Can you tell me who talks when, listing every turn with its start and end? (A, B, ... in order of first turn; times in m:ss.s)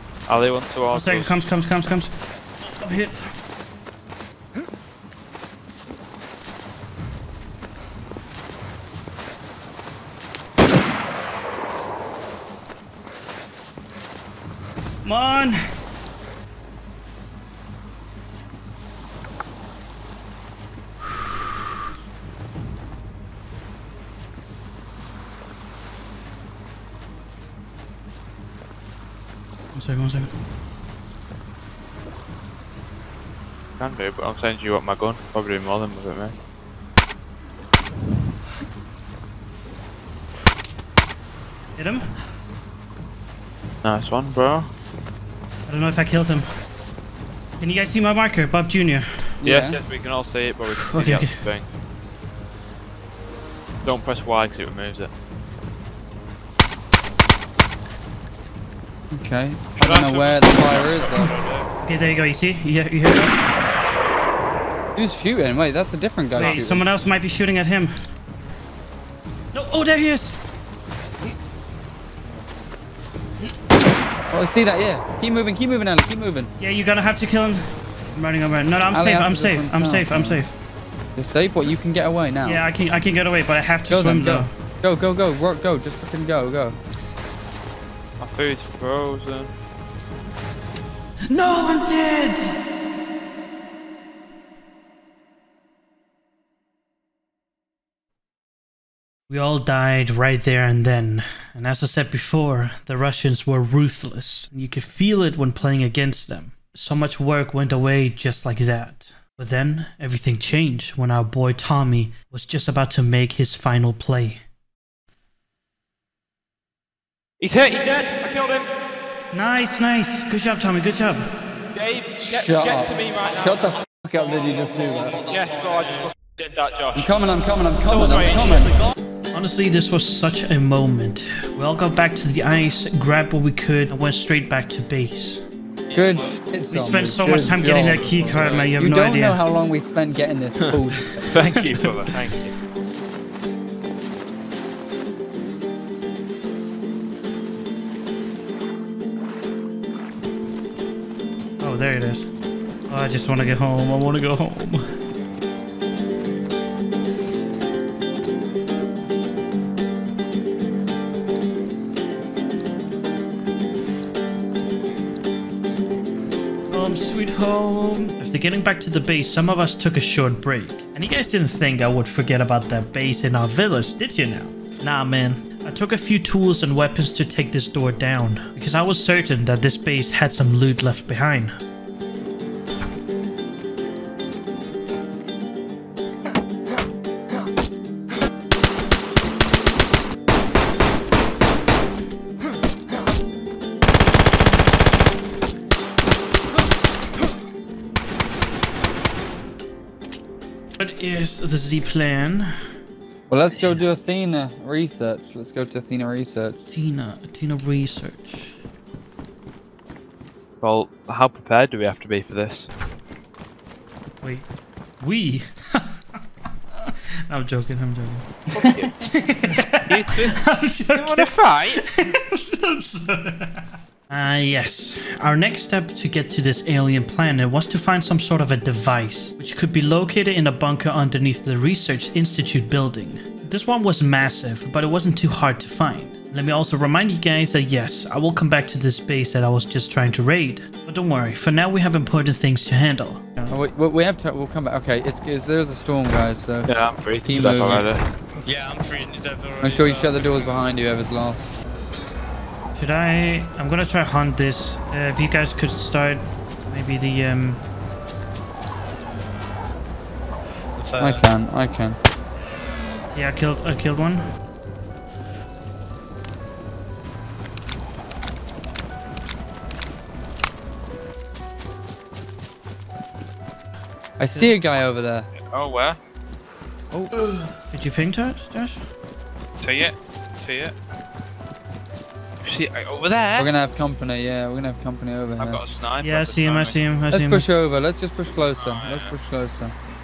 0:00.3-0:01.5 A
0:00.9-0:03.3 B
0:15.0-0:15.6 B
0:29.7-0:30.3 B
0:33.8-0:36.3 A
0:41.8-0:42.0 B
0:43.8-0:44.7 A
0:45.7-0:46.5 B
0:47.6-0:49.2 B
0:49.4-0:49.8 C
0:49.4-0:51.7 A
0:50.8-0:51.4 B
0:53.8-0:55.1 A
0:59.1-1:01.3 C
0:59.8-1:01.7 A
1:01.8-1:03.4 B
1:04.9-1:06.9 C
1:06.3-1:07.9 B
1:09.5-1:10.3 B
1:14.3-1:16.5 C
1:16.6-1:20.5 B
1:18.9-1:20.4 C
1:21.2-1:22.6 C
1:22.4-1:24.5 B
1:23.9-1:26.8 C
1:28.2-1:29.5 A
1:31.3-1:32.5 B
1:39.3-1:54.4 B
1:57.4-1:58.7 A
1:59.3-2:01.3 B
2:01.7-2:03.7 A
2:02.2-2:05.2 C
2:04.2-2:06.1 D
2:05.3-2:07.1 A
2:06.9-2:08.8 C
2:07.8-2:08.8 A
2:09.3-2:15.4 B
2:15.9-2:16.4 D
2:15.9-2:21.2 C
2:16.7-2:19.4 B
2:18.3-2:18.6 A
2:20.6-2:22.5 A
2:31.6-2:32.3 B
2:32.9-2:34.9 B
2:46.7-3:01.6 B
3:20.8-3:22.5 B
3:23.3-3:26.6 C
3:23.5-3:23.8 B
3:26.7-3:28.6 B
3:30.6-3:32.7 A
3:34.2-3:34.5 B
3:35.0-3:36.2 B
3:36.7-3:38.4 B
3:38.5-3:39.0 A
3:39.0-4:03.6 B
3:39.7-3:41.9 A
4:03.5-4:06.7 C
4:06.7-4:08.0 A
4:07.2-4:07.9 C
4:08.4-4:10.6 D
4:09.6-4:11.5 C
4:12.7-4:17.6 B
4:20.8-4:21.2 D
4:21.0-4:22.0 C
4:23.1-4:24.2 B
4:34.2-4:35.3 C
4:35.3-4:36.0 A
4:36.9-4:37.2 C
4:37.7-4:38.8 B
4:39.6-4:40.7 A
4:42.4-4:43.5 A
4:43.3-4:45.6 C
4:45.4-4:46.8 A
4:46.0-4:47.4 B
4:47.1-4:49.7 C
4:48.6-4:49.1 A